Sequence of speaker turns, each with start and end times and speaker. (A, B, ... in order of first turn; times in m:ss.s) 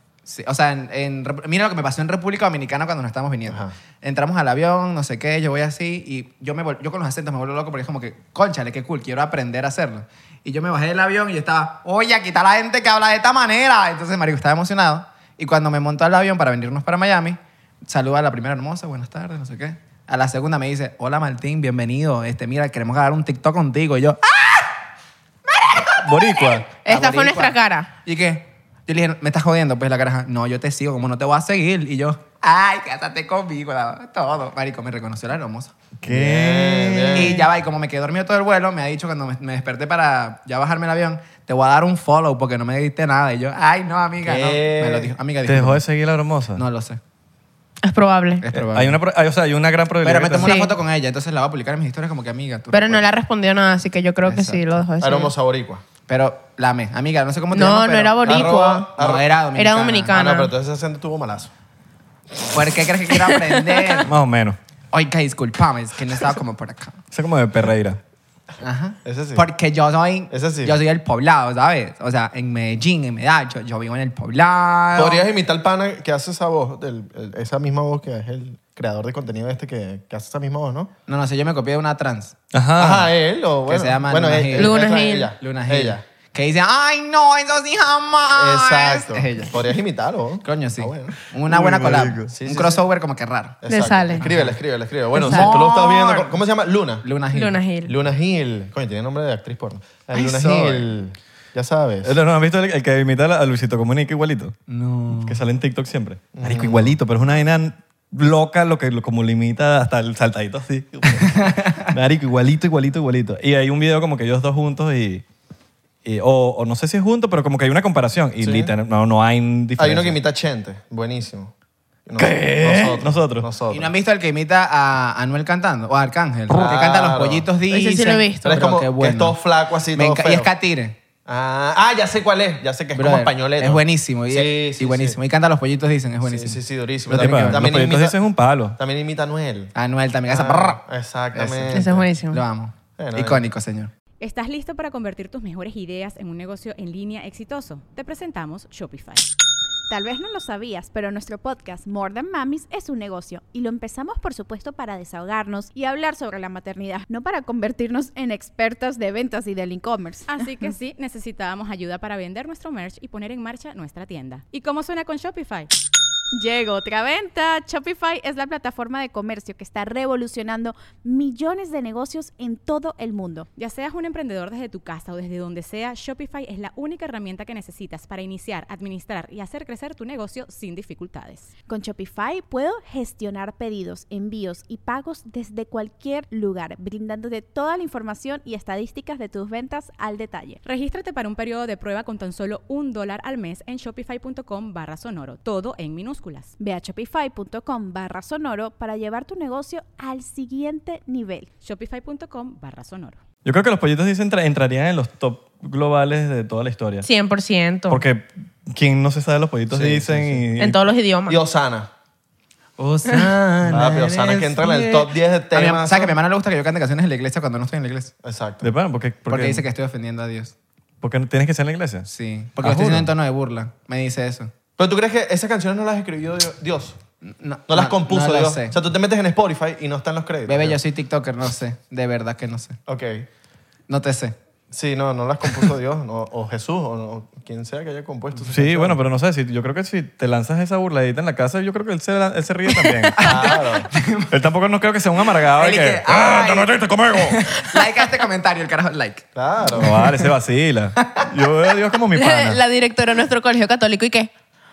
0:00.2-0:24.6 A
0:03.5-0:03.7 B
0:25.6-0:35.7 A
0:26.0-0:26.7 C
0:26.8-0:27.9 D
0:36.0-0:37.5 C
0:36.1-0:37.4 B
0:37.1-0:45.8 A
0:44.2-0:45.1 B
0:45.4-0:46.6 C
0:46.5-0:47.0 A
0:47.8-0:48.4 D
0:48.4-0:49.0 A
0:48.5-0:50.6 C
0:50.0-0:53.0 A
0:50.4-0:50.7 D
0:52.7-0:55.3 D
0:54.2-0:54.6 A
0:55.0-0:55.8 B
0:56.1-1:00.2 A
0:57.5-0:58.9 D
0:58.2-0:59.3 B
0:59.5-1:00.5 D
1:00.1-1:01.5 B
1:02.5-1:04.1 A
1:03.2-1:04.0 D
1:04.0-1:04.6 C
1:04.9-1:07.0 A
1:07.1-1:08.0 C
1:08.6-1:15.2 A
1:09.0-1:09.4 B
1:10.3-1:10.8 B
1:14.9-1:20.9 B
1:21.1-1:22.3 A
1:22.5-1:23.1 C
1:22.8-1:26.0 B
1:23.7-1:24.8 A
1:24.6-1:25.3 D
1:25.4-1:29.6 A
1:28.3-1:31.2 B
1:30.4-1:33.6 A
1:31.5-1:32.3 C
1:32.3-1:32.8 B
1:33.6-1:37.0 B
1:33.7-1:34.2 D
1:34.1-1:34.6 A
1:35.1-1:36.3 A
1:35.2-1:35.7 D
1:37.0-1:37.6 A
1:37.3-1:37.9 D
1:37.8-1:42.2 B
1:40.1-1:40.9 A
1:42.0-1:44.6 C
1:44.7-1:45.4 A
1:45.1-1:55.2 C
1:46.3-1:47.0 B
1:51.2-1:51.9 A
1:56.0-2:00.1 C
1:58.4-1:58.7 B
1:59.8-2:01.5 B
2:02.0-2:03.9 B
2:02.2-2:03.5 C
2:03.7-2:09.4 A
2:06.5-2:07.5 B
2:07.7-2:08.6 D
2:08.4-2:10.5 B
2:09.9-2:11.0 A
2:11.2-2:15.2 B
2:12.9-2:17.6 A
2:16.2-2:18.2 B
2:17.1-2:18.8 C
2:18.8-2:19.7 B
2:19.7-2:20.8 A
2:20.3-2:22.1 B
2:21.3-2:23.9 A
2:21.7-2:22.4 D
2:23.0-2:23.4 B
2:24.2-2:29.2 E
2:29.9-2:40.4 F
2:40.3-2:45.7 E
2:46.3-2:53.5 F
2:53.6-3:01.5 E
3:01.7-3:10.6 F
3:10.6-3:16.5 E
3:16.6-3:21.5 F
3:21.6-3:23.2 E
3:23.4-3:27.1 C
3:27.0-3:28.0 D
3:27.9-3:30.8 C
3:29.7-3:30.4 B
3:30.6-3:31.4 D
3:31.3-3:31.9 B
3:32.8-3:38.1 A
3:33.7-3:36.2 B
3:38.2-3:38.7 B
3:38.6-3:39.6 C
3:39.3-3:40.5 A
3:41.0-3:42.1 C
3:42.0-3:44.5 A
3:42.6-3:43.1 C
3:44.8-3:47.0 B
3:47.2-3:48.8 A
3:47.7-3:50.8 B
3:50.4-3:52.8 A
3:52.9-3:53.3 B
3:53.9-3:54.4 A
3:54.7-3:59.0 B
3:58.5-4:03.3 C
4:03.2-4:04.3 A
4:03.2-4:03.9 B
4:04.3-4:07.5 C
4:05.4-4:10.3 A
4:09.3-4:10.0 B
4:09.7-4:12.6 C
4:11.0-4:11.3 A
4:12.1-4:14.3 D